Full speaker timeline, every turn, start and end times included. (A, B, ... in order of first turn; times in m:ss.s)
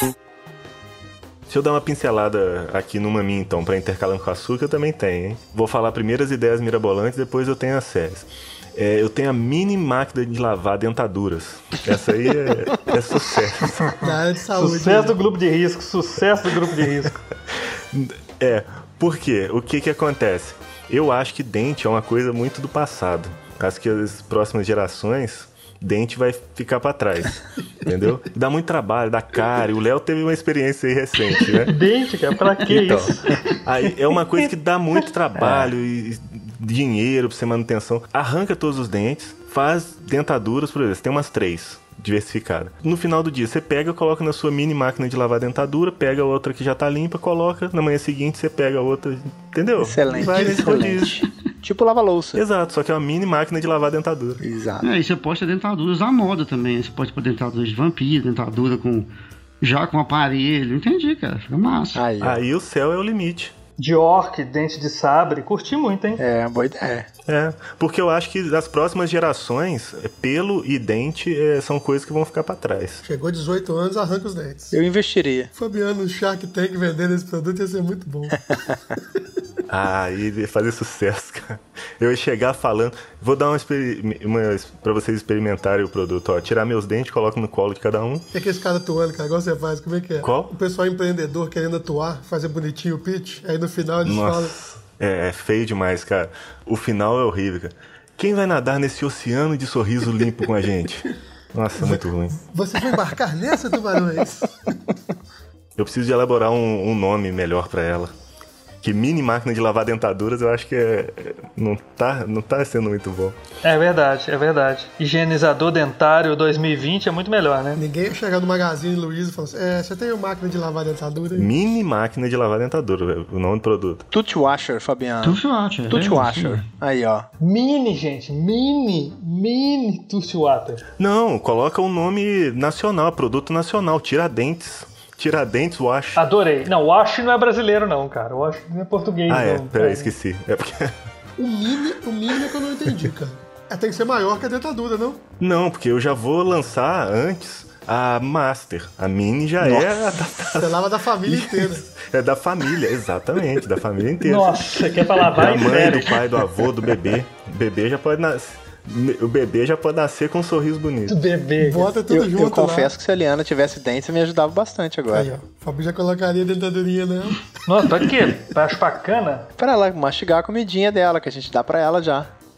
0:01.5-0:14.0 A
0:14.0-0:15.2 B
0:14.5-0:17.2 C
0:17.9-0:31.8 A
0:31.7-0:33.6 C
0:32.7-0:51.2 A
0:49.8-0:52.4 D
0:52.4-0:54.4 A
0:54.4-0:54.9 D
0:54.8-0:59.1 E
0:59.6-1:02.0 E
1:02.0-1:02.4 D
1:02.2-1:03.5 A
1:03.8-1:06.2 C
1:06.2-1:07.1 D
1:07.3-1:13.0 A
1:13.0-1:14.8 B
1:14.7-1:15.5 D
1:15.6-1:18.4 B
1:19.7-1:28.2 A
1:28.3-1:34.5 B
1:30.2-1:30.5 A
1:34.0-1:42.4 A
1:41.8-1:44.8 B
1:45.8-1:48.1 A
1:48.8-1:53.4 A
1:53.6-1:57.8 C
1:57.8-2:01.5 B
2:01.4-2:04.0 A
2:04.1-2:07.3 D
2:05.2-2:06.6 E
2:07.4-2:10.8 C
2:11.0-2:16.2 A
2:16.2-2:20.1 C
2:19.3-2:21.0 A
2:21.4-2:25.2 B
2:25.4-2:41.2 A
2:30.4-2:31.9 B
2:34.2-2:36.2 C
2:41.1-2:41.9 C
2:41.6-2:42.9 B
2:42.1-2:45.3 D
2:45.1-2:47.5 B
2:47.6-2:49.5 C
2:49.6-2:52.3 D